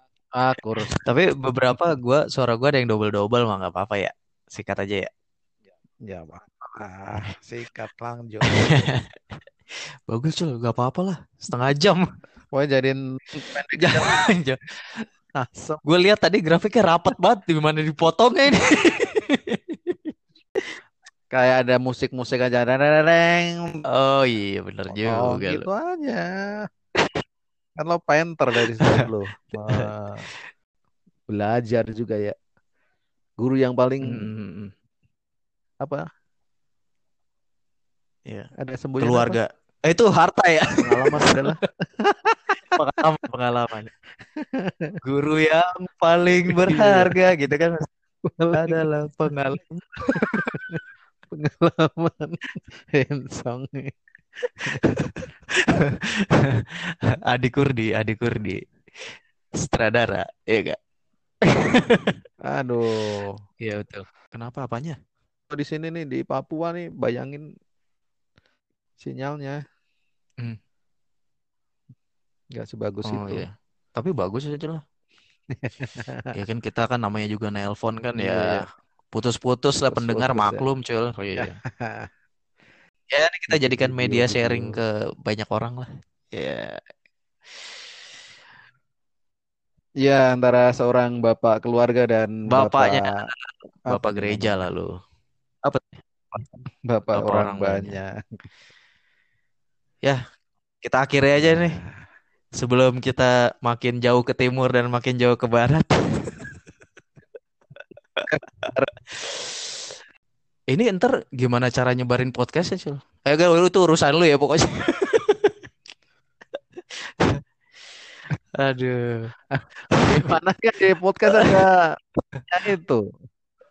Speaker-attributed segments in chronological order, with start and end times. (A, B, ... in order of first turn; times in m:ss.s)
0:00.4-0:00.9 A
0:00.9-0:05.1 B
0:06.0-0:08.9 A
0:08.4-0:09.1 B
0:10.1-0:12.0 B
0:12.5-0:14.2 A
0:13.5-0:15.0 B
0:15.4-0:15.8 A
0:15.8-0:20.6 B
0:21.3-0:23.8 A
0:23.9-0:25.7 B
0:24.9-0:26.3 A
0:27.8-0:30.2 A
0:31.3-0:32.4 A
0:33.4-0:34.3 A
0:34.0-0:34.7 B
0:38.6-0:39.4 A
0:39.0-0:41.6 B
0:40.8-0:42.6 A
0:42.7-0:43.9 B
0:44.4-0:44.9 A
0:45.0-0:47.9 B
0:46.5-0:47.2 A
0:48.3-0:48.9 A
0:48.5-0:50.5 B
0:50.2-0:50.8 A
0:51.3-0:52.4 A
0:52.9-0:53.9 A
0:55.1-0:58.6 B
0:59.6-1:00.8 B
1:01.4-1:02.2 B
1:02.5-1:03.4 A
1:03.6-1:05.0 B
1:05.5-1:07.5 A
1:09.0-1:09.6 A
1:12.5-1:13.5 A
1:13.0-1:14.8 B
1:15.6-1:16.3 A
1:16.3-1:21.6 B
1:18.2-1:18.6 A
1:19.9-1:20.7 A
1:21.4-1:22.1 A
1:23.1-1:26.8 B
1:23.5-1:24.8 A
1:30.0-1:33.2 A
1:32.5-1:34.9 B
1:33.9-1:34.7 A
1:35.6-1:36.6 B
1:36.8-1:38.2 A
1:37.1-1:38.0 B
1:40.8-1:41.8 B
1:41.4-1:42.0 A
1:42.6-1:46.6 B
1:48.2-1:49.6 B
1:50.7-1:55.6 B
1:56.9-1:57.4 B
1:58.6-1:59.3 B
1:59.6-2:01.9 A
1:59.9-2:00.4 B
2:01.3-2:01.6 B
2:02.5-2:03.0 A